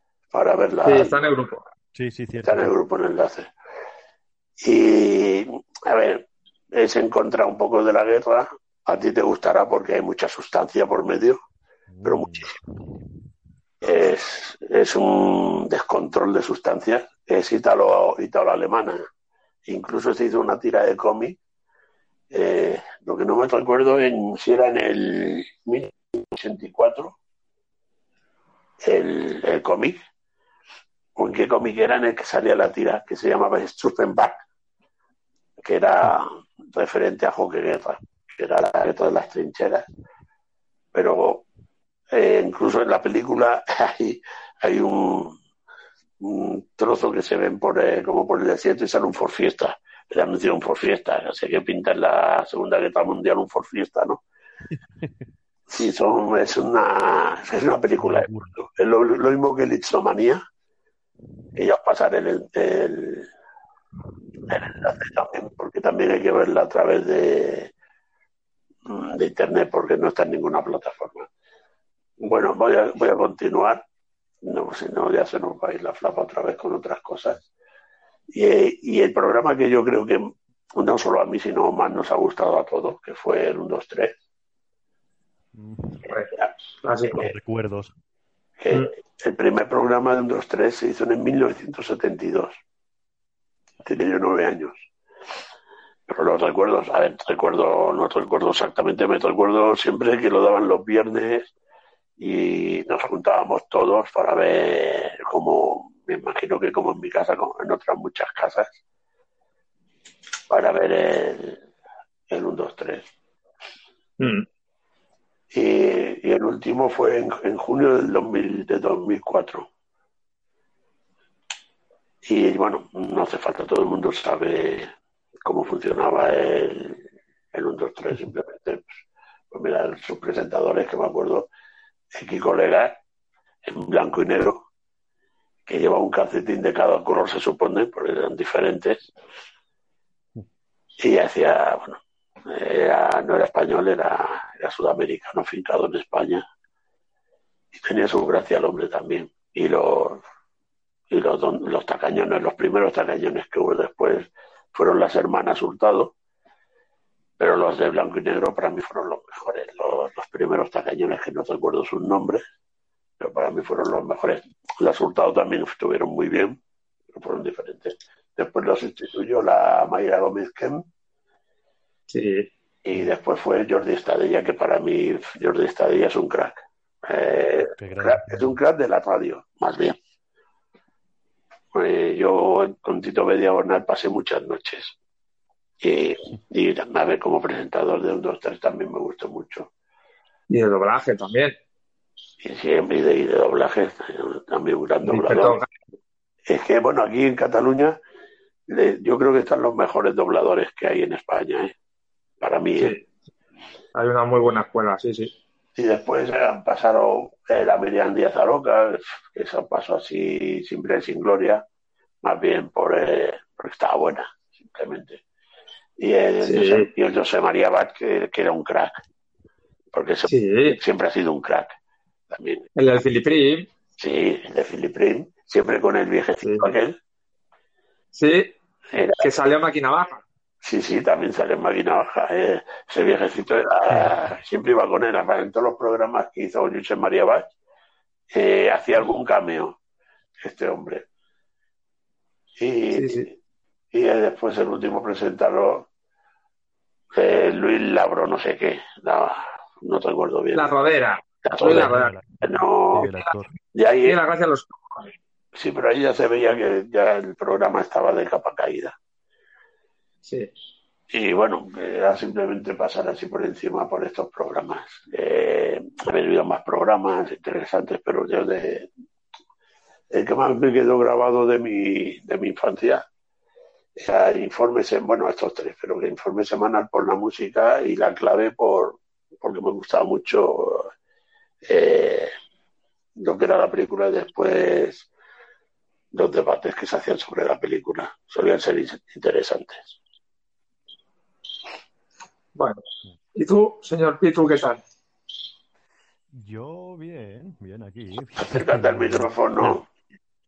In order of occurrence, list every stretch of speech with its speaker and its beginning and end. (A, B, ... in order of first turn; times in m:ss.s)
0:00.3-0:01.1 A
0:00.8-0:01.6 B
0:01.9-0:02.7 C
0:02.4-0:03.5 A
0:04.6-0:11.4 A
0:11.9-0:13.1 C
0:12.0-0:12.5 A
0:13.8-0:19.0 A
0:19.7-0:21.4 A
0:22.3-0:27.2 A
0:28.8-0:30.0 A
0:31.2-0:34.4 A
0:35.6-0:39.9 A
0:40.9-0:41.4 A
0:42.1-0:45.4 A
0:46.2-0:54.2 A
0:54.7-0:55.2 C
0:55.7-1:00.4 A
0:58.0-0:58.6 C
1:01.6-1:03.3 A
1:04.5-1:07.7 A
1:08.9-1:11.3 A
1:12.2-1:13.8 A
1:14.4-1:17.4 A
1:18.3-1:24.2 A
1:25.5-1:26.1 C
1:26.0-1:27.3 B
1:27.1-1:27.9 C
1:28.6-1:32.6 A
1:33.8-1:34.9 A
1:36.1-1:41.5 A
1:42.2-1:48.8 A
1:50.5-1:51.6 A
1:52.3-1:53.1 A
1:54.2-1:54.4 B
1:55.5-1:59.7 A
2:02.2-2:04.9 A
2:05.4-2:09.0 A
2:09.5-2:11.5 A
2:12.1-2:13.0 A
2:13.6-2:14.7 A
2:15.7-2:19.1 A
2:21.0-2:26.4 A
2:27.8-2:30.2 A
2:31.1-2:36.1 A
2:37.4-2:42.4 A
2:43.2-2:46.6 A
2:47.1-2:50.8 A
2:52.1-2:52.5 B
2:52.8-3:00.0 A
2:57.8-2:58.5 C
3:01.7-3:05.0 A
3:05.8-3:09.7 A
3:10.5-3:11.6 B
3:12.4-3:15.6 A
3:15.0-3:15.7 B
3:16.5-3:18.0 A
3:18.7-3:21.7 A
3:22.4-3:23.0 A
3:22.8-3:23.0 B
3:24.0-3:25.3 B
3:25.8-3:31.6 A
3:32.2-3:35.2 A
3:36.0-3:38.9 A
3:36.4-3:36.9 B
3:39.9-3:41.8 A
3:40.3-3:40.8 B
3:42.3-3:42.7 A
3:42.8-3:43.7 B
3:44.0-3:47.0 A
3:46.4-3:46.7 B
3:48.1-3:48.5 B
3:48.9-3:49.3 A
3:49.2-3:50.2 B
3:50.6-3:57.5 A
3:58.3-3:59.8 A
4:00.4-4:01.0 A
4:02.6-4:03.3 A
4:02.9-4:03.3 B
4:03.9-4:05.9 A
4:07.1-4:10.7 A
4:10.5-4:12.1 B
4:11.4-4:13.1 A
4:11.6-4:13.5 C
4:12.9-4:13.3 B
4:13.7-4:14.2 A
4:14.0-4:15.1 B
4:15.6-4:19.0 A
4:20.2-4:20.5 B
4:21.1-4:28.9 A
4:30.1-4:33.0 A
4:34.0-4:40.9 A
4:41.6-4:42.3 A
4:43.2-4:45.1 A
4:46.1-4:50.0 A
4:52.6-4:54.8 B
4:56.3-4:59.8 C
4:58.4-4:59.8 A